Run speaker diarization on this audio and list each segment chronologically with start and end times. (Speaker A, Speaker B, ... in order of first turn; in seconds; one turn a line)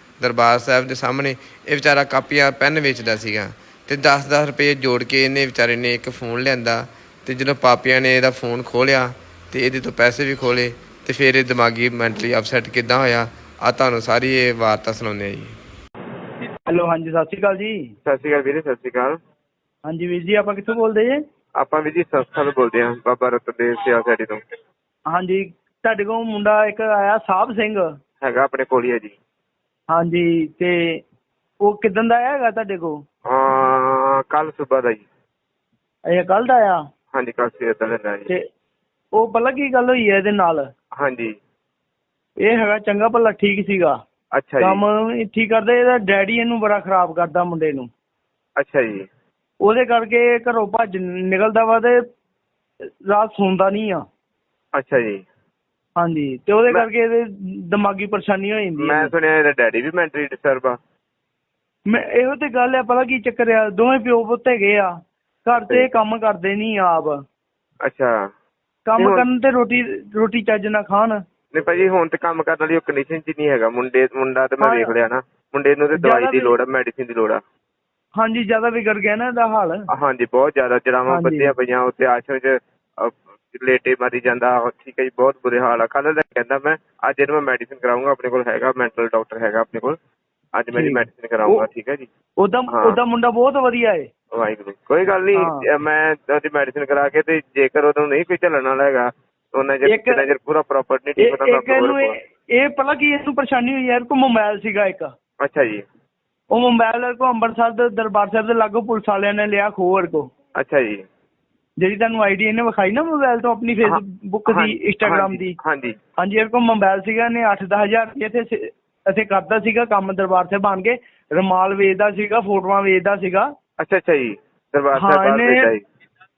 Speaker A: 0.2-15.6
Speaker B: 16.6-17.9
Speaker C: 18.1-19.2
Speaker B: 19.9-21.2
Speaker C: 21.6-24.4
Speaker B: 25.1-27.9
Speaker C: 28.2-29.1
Speaker B: 29.9-31.0
Speaker B: 31.6-33.0
Speaker C: 33.3-35.0
Speaker B: 36.1-36.8
Speaker C: 37.1-38.3
Speaker B: 39.1-40.7
Speaker C: 41.0-41.3
Speaker B: 42.4-44.0
Speaker C: 44.3-44.8
Speaker B: 44.6-47.9
Speaker C: 48.6-49.1
Speaker B: 49.6-52.0
Speaker B: 53.1-54.0
Speaker C: 54.8-55.2
Speaker B: 56.0-59.1
Speaker C: 58.8-60.8
Speaker B: 61.9-64.9
Speaker B: 65.4-67.2
Speaker C: 67.8-68.3
Speaker B: 68.8-71.2
Speaker C: 69.0-69.2
Speaker C: 71.5-77.4
Speaker B: 74.6-74.9
Speaker B: 76.0-76.5
Speaker B: 78.2-79.8
Speaker C: 79.9-90.0
Speaker B: 81.1-81.5
Speaker C: 90.5-92.1
Speaker B: 90.7-91.7
Speaker B: 92.4-94.1
Speaker C: 92.7-93.0
Speaker C: 94.3-102.2
Speaker B: 95.3-95.6
Speaker B: 99.8-100.2
Speaker B: 101.2-105.1
Speaker C: 105.4-105.8
Speaker B: 106.5-110.3
Speaker C: 110.6-111.0
Speaker B: 111.8-115.5
Speaker C: 113.8-115.9
Speaker B: 116.2-123.5
Speaker C: 123.8-125.8
Speaker B: 125.0-125.7